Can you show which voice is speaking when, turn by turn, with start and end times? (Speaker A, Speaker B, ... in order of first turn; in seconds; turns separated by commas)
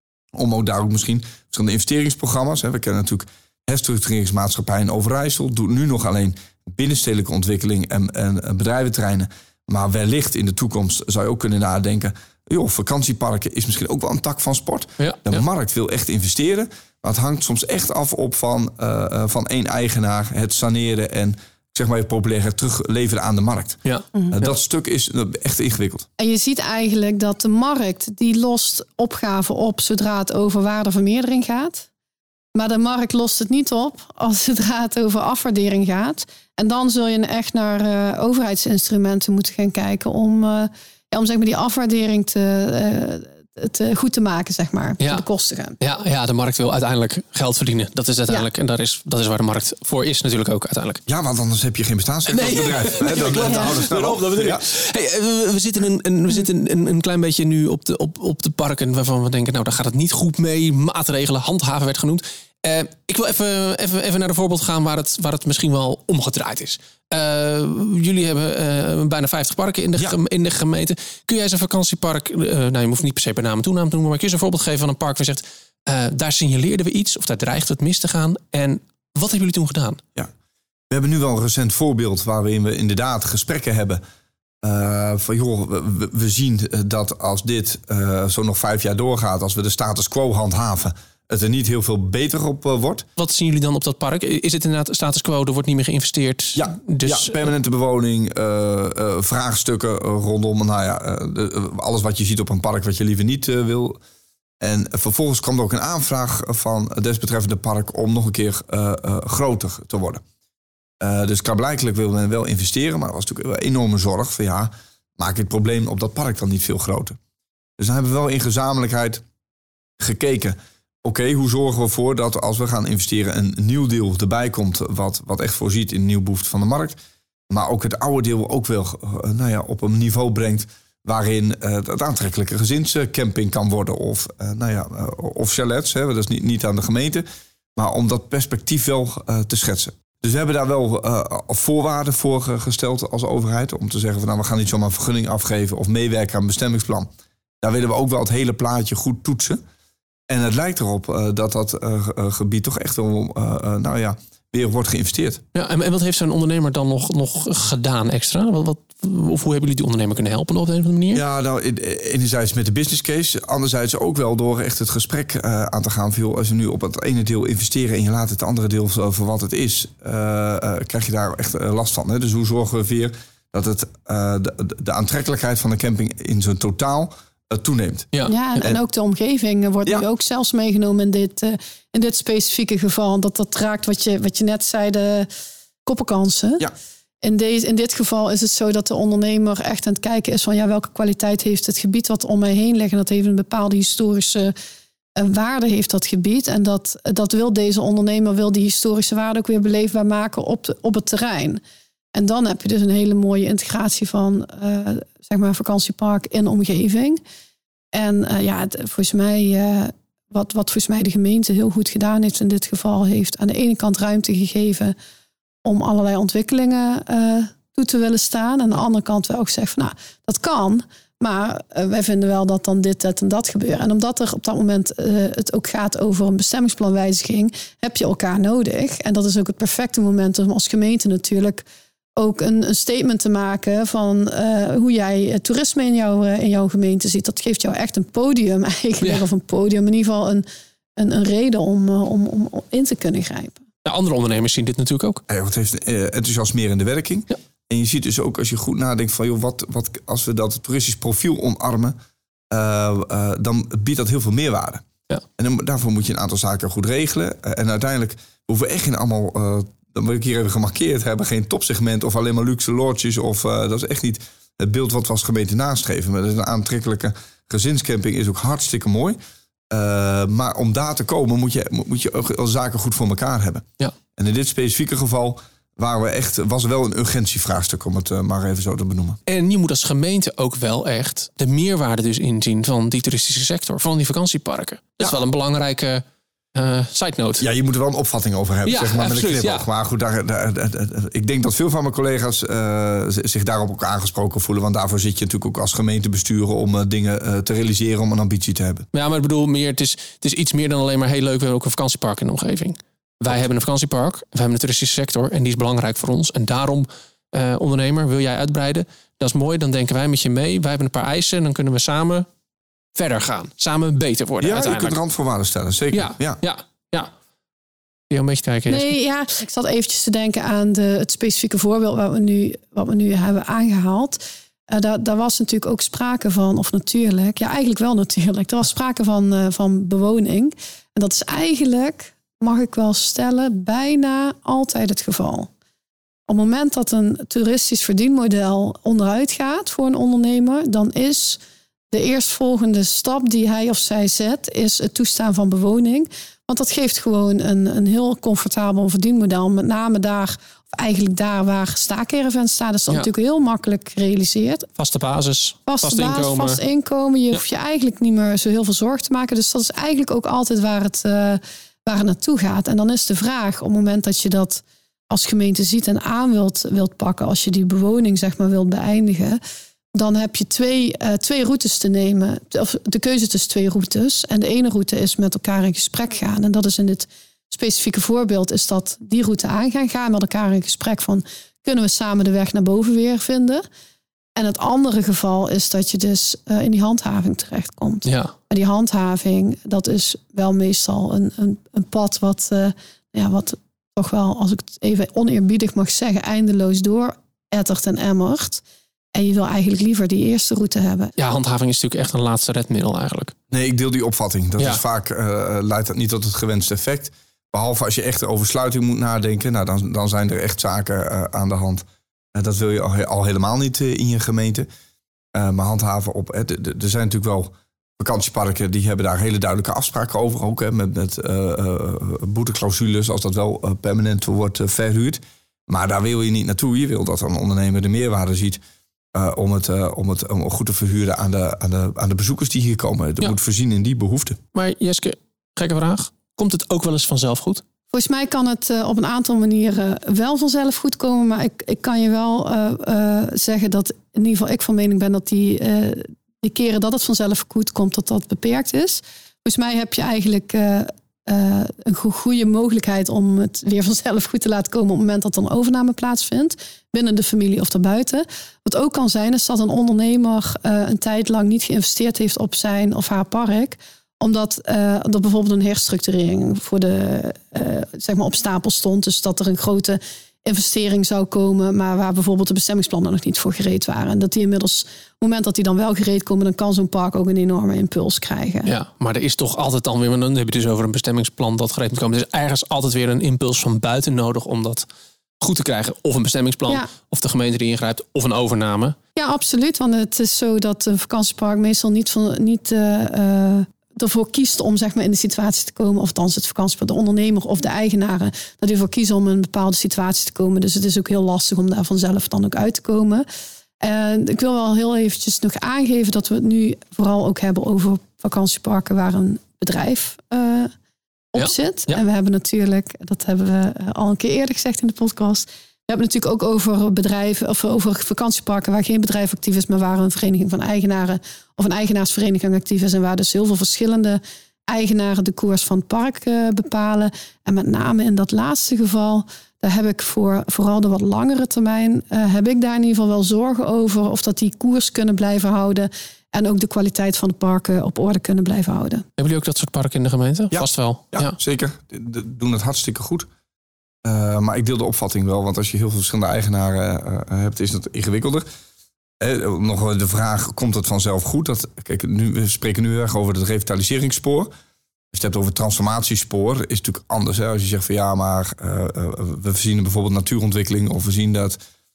Speaker A: 0.3-23.8, Speaker B: 15.0-15.4, Speaker A: 24.3-26.1, Speaker C: 26.2-31.9, Speaker C: 32.5-45.8, Speaker B: 45.0-45.2, Speaker B: 45.8-51.0, Speaker A: 51.1-54.6, Speaker B: 52.3-80.0, Speaker A: 80.9-84.0, Speaker A: 84.6-93.0, Speaker B: 93.2-97.5, Speaker A: 96.5-104.0, Speaker A: 104.6-110.2, Speaker A: 111.0-117.2, Speaker A: 117.8-119.2, Speaker A: 120.0-127.0, Speaker A: 127.5-137.2, Speaker A: 137.8-147.1, Speaker A: 147.6-149.6, Speaker A: 150.3-155.4, Speaker B: 155.5-161.2, Speaker A: 161.1-178.8, Speaker C: 178.2-185.3, Speaker C: 185.8-186.7, Speaker C: 187.2-194.5, Speaker C: 195.2-201.6, Speaker C: 202.1-207.2, Speaker C: 207.9-214.9, Speaker C: 215.6-231.6, Speaker C: 232.2-240.4, Speaker C: 241.0-243.6, Speaker B: 243.8-245.2, Speaker A: 245.3-251.9, Speaker A: 252.5-254.8, Speaker A: 255.4-269.2, Speaker A: 269.7-273.6, Speaker A: 274.2-279.2, Speaker B: 279.3-286.0, Speaker B: 286.5-287.4, Speaker A: 287.4-298.9, Speaker B: 288.6-289.6, Speaker B: 298.9-312.3, Speaker B: 312.9-315.0, Speaker A: 314.4-316.4, Speaker B: 315.9-317.1, Speaker B: 318.1-318.9, Speaker C: 318.7-324.2, Speaker C: 324.7-335.5, Speaker C: 336.3-341.4, Speaker C: 341.9-354.7, Speaker B: 354.8-356.6, Speaker C: 355.7-369.4, Speaker C: 369.9-383.6, Speaker C: 384.4-398.6, Speaker B: 388.1-388.3, Speaker C: 399.1-401.1, Speaker B: 401.2-403.3, Speaker A: 403.5-414.7, Speaker A: 415.3-428.6, Speaker A: 429.1-434.4, Speaker B: 434.5-437.6, Speaker C: 437.9-478.7, Speaker B: 478.6-484.9, Speaker B: 485.4-488.9, Speaker C: 489.1-503.2, Speaker C: 503.8-510.7, Speaker C: 511.3-539.0, Speaker B: 511.4-512.0, Speaker B: 539.2-541.4, Speaker A: 540.5-543.3, Speaker A: 544.0-548.4, Speaker A: 549.2-554.5, Speaker A: 555.1-561.6